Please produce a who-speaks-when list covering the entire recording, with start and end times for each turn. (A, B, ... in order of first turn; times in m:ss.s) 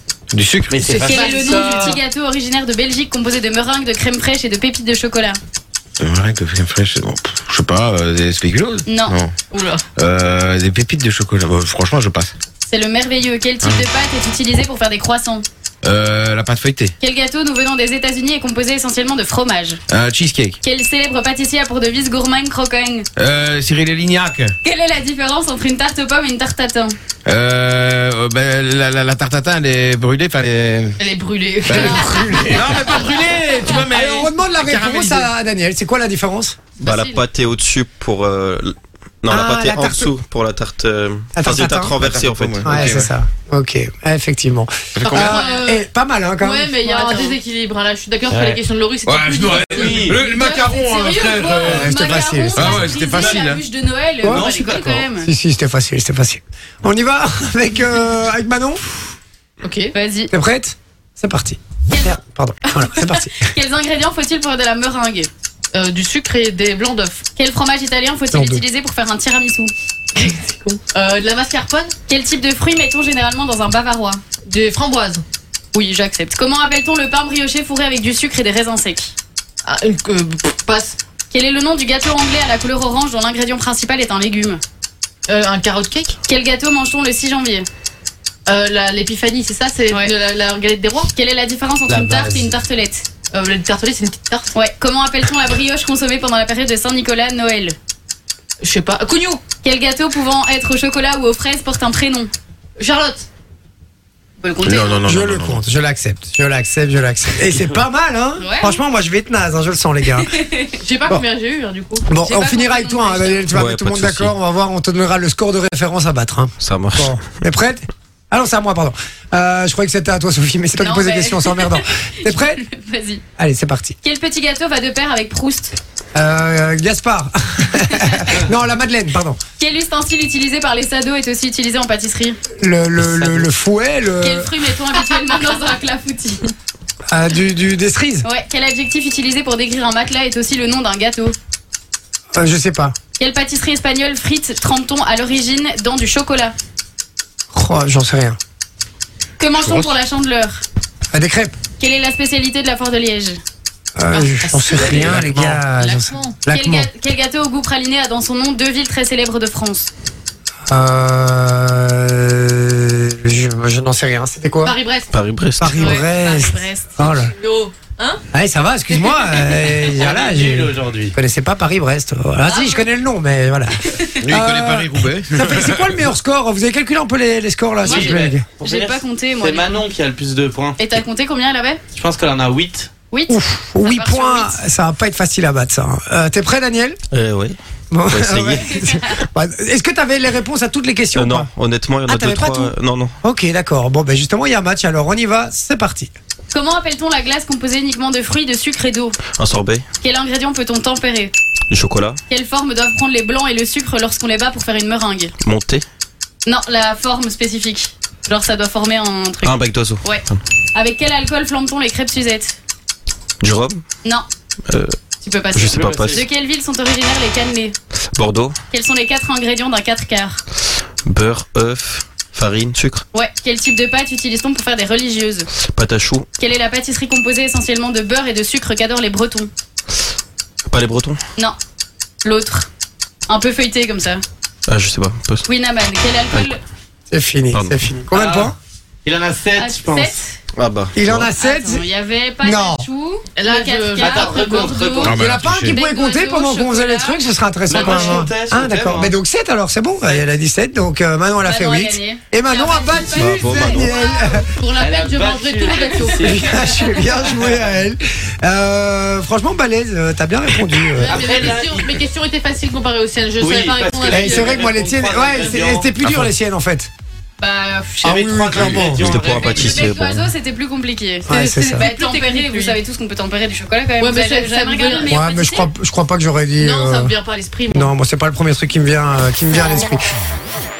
0:00.3-0:00.9 A
0:00.7-0:02.0 B
0:00.8-0:02.0 C
0:01.0-0:05.4 D
0:06.0-0:09.3 A
0:08.9-0:09.2 D
0:09.5-0:09.8 C
0:10.0-0:12.3 A
0:12.7-0:15.4 D
0:15.8-0:16.9 A
0:17.0-0:19.8 D
0:19.9-0:20.6 A
0:20.6-0:23.1 D
0:23.2-0:24.6 A
0:24.6-0:26.9 D
0:27.2-0:31.0 A
0:31.0-0:33.2 C
0:31.7-0:35.3 A
0:33.8-0:36.6 E
0:36.8-0:43.0 F
0:36.8-0:37.2 C
0:39.3-0:40.1 E
0:41.4-0:42.0 E
0:41.9-0:43.1 A
0:42.6-0:46.7 E
0:45.0-0:45.5 A
0:45.1-0:45.9 C
0:46.4-0:51.8 C
0:46.8-0:47.4 D
0:48.3-0:48.6 B
0:49.1-0:53.6 A
0:49.7-0:50.3 B
0:51.1-0:55.3 D
0:51.7-0:52.9 E
0:54.2-0:55.1 B
0:55.2-0:59.1 E
0:59.6-0:59.9 C
0:59.9-1:00.3 D
1:00.3-1:03.5 E
1:02.7-1:05.3 D
1:05.7-1:07.2 C
1:07.4-1:09.7 D
1:08.3-1:08.6 E
1:10.2-1:12.0 C
1:12.1-1:14.2 D
1:14.5-1:15.2 C
1:15.7-1:19.1 D
1:19.6-1:21.0 C
1:21.3-1:24.6 D
1:25.3-1:26.2 C
1:26.3-1:27.7 D
1:28.5-1:31.1 C
1:31.1-1:33.0 D
1:31.9-1:32.5 B
1:33.3-1:34.5 C
1:34.5-1:37.8 D
1:38.6-1:39.4 C
1:39.6-1:42.3 D
1:42.8-1:43.2 C
1:44.4-1:45.0 D
1:44.6-1:45.6 A
1:45.0-1:50.3 E
1:48.4-1:48.8 D
1:50.3-1:50.7 D
1:50.8-1:52.1 C
1:52.1-2:02.6 E
1:52.2-1:53.3 D
1:53.5-1:54.3 F
1:56.6-1:57.2 F
2:00.8-2:03.2 D
2:03.4-2:04.0 E
2:04.0-2:05.8 D
2:06.2-2:09.4 E
2:07.9-2:08.4 D
2:09.6-2:12.4 D
2:12.6-2:14.5 E
2:13.2-2:13.4 B
2:14.2-2:16.5 D
2:17.1-2:18.3 E
2:18.2-2:21.4 D
2:22.4-2:23.0 E
2:23.2-2:26.6 D
2:27.5-2:28.4 E
2:29.4-2:30.6 D
2:29.6-2:29.9 A
2:31.1-2:31.6 E
2:31.8-2:33.4 D
2:34.0-2:36.9 E
2:34.1-2:36.4 C
2:36.5-2:39.9 D
2:40.7-2:44.8 E
2:44.6-2:45.1 C
2:45.1-2:46.0 F
2:45.6-2:47.3 E
2:45.8-2:47.1 D
2:47.3-2:48.2 C
2:48.3-2:58.4 E
2:48.9-2:49.9 C
2:49.8-2:51.2 B
2:52.4-2:52.8 C
2:54.2-2:56.0 A
2:57.8-3:00.8 B
2:57.8-2:59.8 D
3:00.8-3:01.8 D
3:01.9-3:02.9 B
3:03.1-3:04.6 D
3:03.3-3:07.0 E
3:07.1-3:07.6 F
3:07.9-3:11.5 E
3:08.1-3:08.8 F
3:08.8-3:09.0 D
3:11.1-3:13.2 F
3:12.1-3:16.1 E
3:16.5-3:19.2 D
3:19.3-3:19.8 F
3:20.0-3:21.3 D
3:21.7-3:22.2 F
3:22.3-3:25.4 D
3:25.4-3:25.8 F
3:26.5-3:32.6 D
3:29.4-3:30.4 F
3:33.4-3:33.8 F
3:34.7-3:35.0 F
3:35.2-3:37.8 D
3:35.5-3:36.2 F
3:35.6-3:36.2 B
3:38.1-3:38.6 F
3:38.7-3:40.4 D
3:41.0-3:43.0 F
3:43.1-3:45.5 D
3:45.6-3:46.3 F
3:46.4-3:49.5 D
3:50.7-3:51.2 F
3:52.2-3:52.7 D
3:53.3-3:54.2 D
3:54.7-3:55.5 F
3:55.5-3:56.6 D
3:57.1-3:58.6 E
3:57.5-3:57.9 F
3:58.1-3:58.5 B
3:59.0-4:00.2 B
3:59.6-4:00.4 D
4:00.5-4:01.3 F
4:01.0-4:01.8 E
4:01.4-4:04.8 D
4:02.4-4:02.9 E
4:03.4-4:05.1 C
4:04.0-4:05.1 B
4:04.9-4:05.8 A
4:05.1-4:14.5 E
4:05.4-4:07.2 D
4:07.7-4:09.1 B
4:07.7-4:08.2 C
4:11.4-4:14.5 D
4:13.2-4:14.0 F
4:14.5-4:16.8 C
4:14.7-4:16.5 B
4:15.7-4:16.8 D
4:16.2-4:21.2 E
4:21.0-4:22.0 B
4:21.1-4:24.6 C
4:23.4-4:25.9 B
4:24.1-4:26.9 E
4:27.4-4:28.1 D
4:28.0-4:29.1 E
4:28.0-4:30.0 B
4:28.6-4:28.8 A
4:28.9-4:30.3 F
4:29.2-4:35.7 D
4:31.3-4:31.8 E
4:31.3-4:32.8 C
4:34.0-4:35.1 C
4:35.1-4:37.1 E
4:36.6-4:37.9 C
4:37.7-4:40.0 E